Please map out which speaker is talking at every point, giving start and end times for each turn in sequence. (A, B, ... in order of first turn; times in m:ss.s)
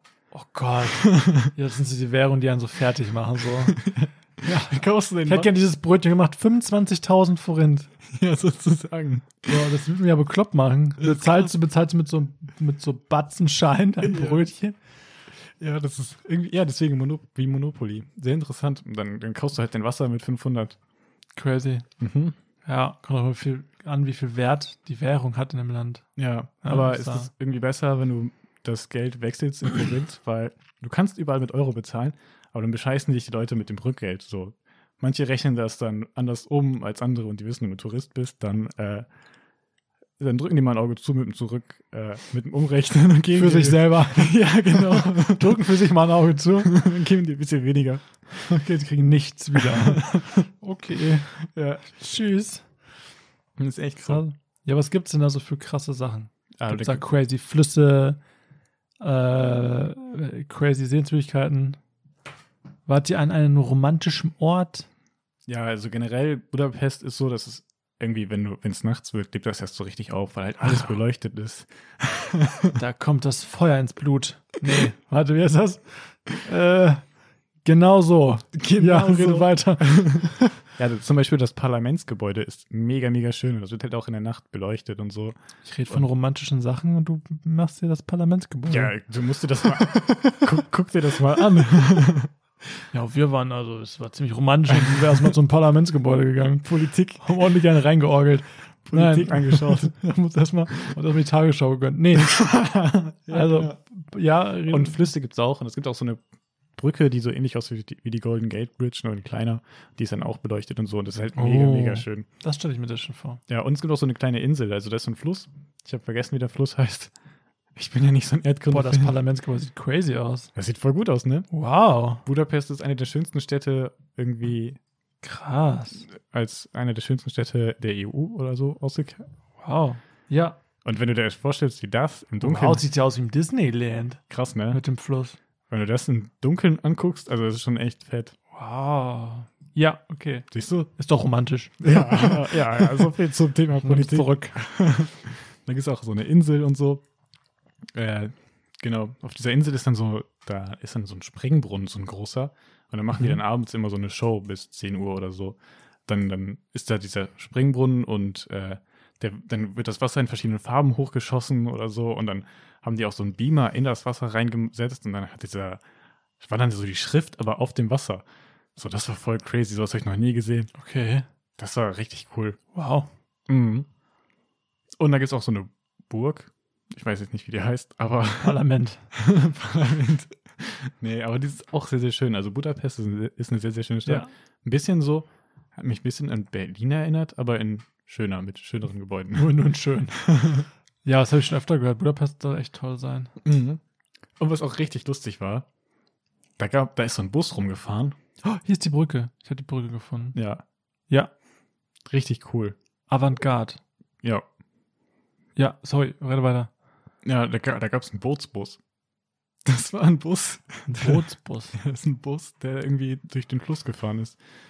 0:00.3-0:03.8 A
0:01.0-0:01.5 B
0:03.7-0:05.5 B
0:04.4-0:07.9 A
0:08.1-0:09.6 B
0:09.5-0:14.8 A
0:11.0-0:11.5 B
0:14.0-0:14.5 B
0:15.6-0:20.8 B
0:21.4-0:21.9 A
0:22.0-0:22.4 B
0:22.6-0:26.1 A
0:26.2-0:39.1 B
0:26.6-0:27.3 A
0:40.2-0:45.8 B
0:43.4-0:46.8 A
0:46.6-0:48.6 B
0:48.4-0:51.4 A
0:49.6-0:50.4 B
0:51.4-0:51.9 B
0:51.9-0:52.7 A
0:53.6-0:54.2 B
0:54.0-0:58.2 A
0:56.6-0:57.0 B
0:59.0-1:01.8 A
1:02.9-1:04.9 A
1:05.5-1:12.8 B
1:12.8-1:17.0 A
1:17.6-1:20.6 A
1:18.5-1:25.4 B
1:25.6-1:29.0 A
1:28.7-1:32.3 B
1:29.6-1:30.5 A
1:32.9-1:36.7 A
1:34.7-1:35.3 B
1:36.6-1:37.4 B
1:37.2-1:42.5 A
1:38.9-1:39.9 B
1:42.2-1:43.8 B
1:43.3-1:45.0 A
1:44.7-1:46.2 B
1:46.8-1:52.3 B
1:51.4-1:53.4 A
1:53.5-1:57.1 B
1:57.8-1:59.2 B
1:58.7-2:00.5 A
2:00.6-2:01.5 B
2:01.5-2:02.2 A
2:02.2-2:04.8 B
2:05.2-2:06.1 A
2:06.1-2:09.3 B
2:09.6-2:10.6 A
2:10.8-2:12.8 B
2:12.4-2:15.4 A
2:14.3-2:14.8 B
2:15.7-2:18.4 B
2:18.5-2:23.1 A
2:20.5-2:20.9 B
2:21.8-2:27.0 B
2:23.8-2:24.6 A
2:27.9-2:45.8 B
2:46.4-2:48.2 B
2:48.8-2:50.7 B
2:50.8-2:51.3 A
2:51.6-2:52.6 B
2:52.7-2:53.1 A
2:53.5-2:53.9 B
2:55.0-3:09.5 B
2:58.4-2:59.0 A
3:04.1-3:04.3 A
3:09.4-3:13.3 A
3:10.2-3:10.6 B
3:13.4-3:13.8 B
3:14.4-3:15.7 B
3:16.6-3:18.2 B
3:18.4-3:20.4 A
3:20.4-3:20.6 B
3:22.1-3:22.8 B
3:23.1-3:23.8 A
3:25.6-3:26.7 A
3:27.2-3:28.8 B
3:29.6-3:31.2 B
3:30.9-3:31.8 A
3:31.8-3:34.4 B